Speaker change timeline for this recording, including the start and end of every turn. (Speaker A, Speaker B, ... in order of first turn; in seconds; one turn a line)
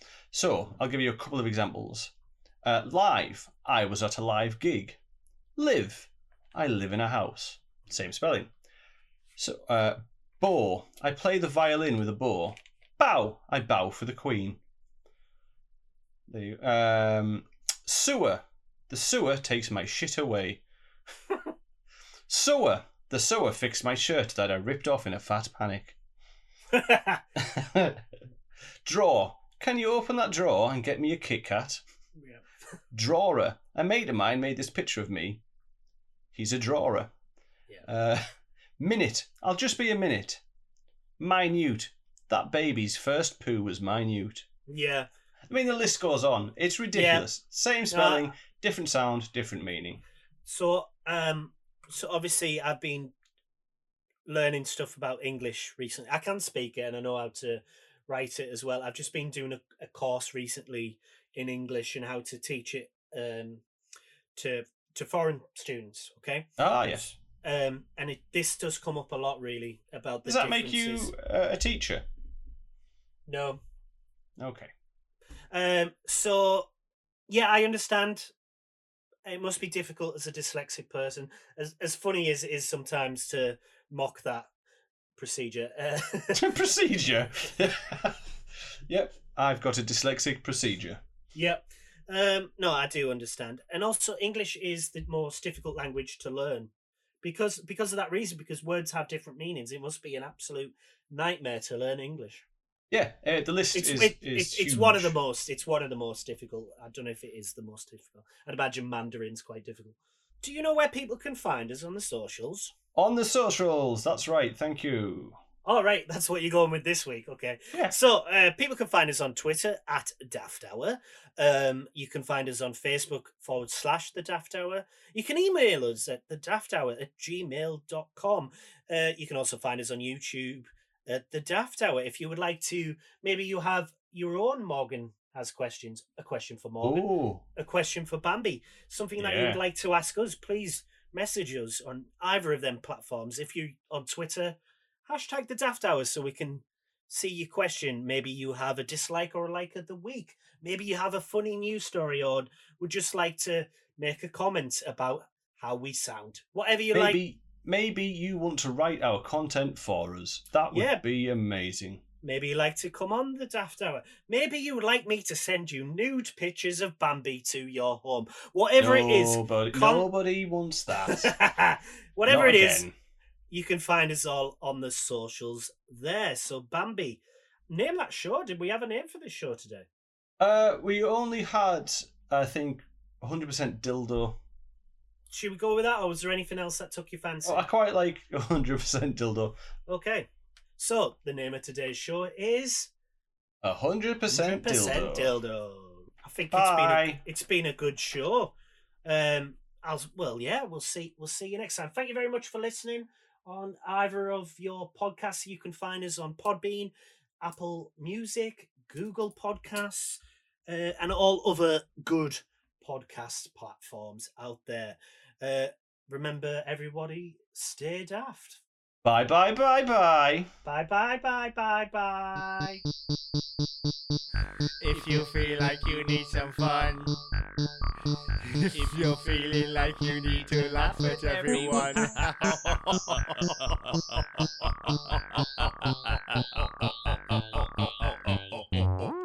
Speaker A: 0.3-2.1
Speaker A: 2.6-5.0
Speaker A: 5.6-8.5
Speaker A: 9.4-14.6
Speaker A: 16.3-20.6
Speaker A: 22.3-26.0
Speaker B: 26.7-27.2
Speaker A: 27.4-28.0
Speaker A: 28.9-31.8
Speaker B: 32.2-32.4
Speaker A: 32.9-35.4
Speaker A: 36.3-37.1
Speaker A: 37.9-38.3
Speaker A: 38.8-40.4
Speaker A: 41.2-44.5
Speaker B: 44.7-45.1
Speaker A: 45.5-50.0
Speaker B: 46.9-47.3
Speaker B: 47.9-48.3
Speaker B: 50.5-53.1
Speaker B: 54.3-63.6
Speaker B: 64.3-66.5
Speaker A: 66.6-67.2
Speaker B: 67.4-71.1
Speaker A: 70.2-72.1
Speaker B: 73.3-73.6
Speaker A: 74.4-74.7
Speaker B: 75.5-76.7
Speaker B: 77.3-78.3
Speaker B: 79.3-84.5
Speaker B: 85.2-86.5
Speaker A: 86.3-88.2
Speaker A: 88.9-91.0
Speaker B: 91.3-96.7
Speaker B: 97.2-102.5
Speaker A: 102.9-105.2
Speaker B: 103.7-112.7
Speaker A: 113.0-115.4
Speaker B: 115.7-157.2
Speaker A: 136.8-137.4
Speaker A: 139.2-139.6
Speaker A: 156.9-162.0
Speaker B: 160.7-161.0
Speaker B: 162.2-170.1
Speaker A: 168.8-171.3
Speaker B: 171.0-172.8
Speaker A: 172.2-172.9
Speaker B: 173.5-179.9
Speaker A: 180.4-184.4
Speaker B: 185.3-187.7
Speaker A: 187.4-189.6
Speaker B: 189.9-192.9
Speaker A: 193.6-195.4
Speaker B: 194.3-198.5
Speaker A: 196.5-197.2
Speaker B: 199.1-218.6
Speaker A: 219.0-220.5
Speaker B: 220.7-222.8
Speaker C: 224.8-227.1
Speaker C: 228.7-232.2
Speaker A: 230.8-232.0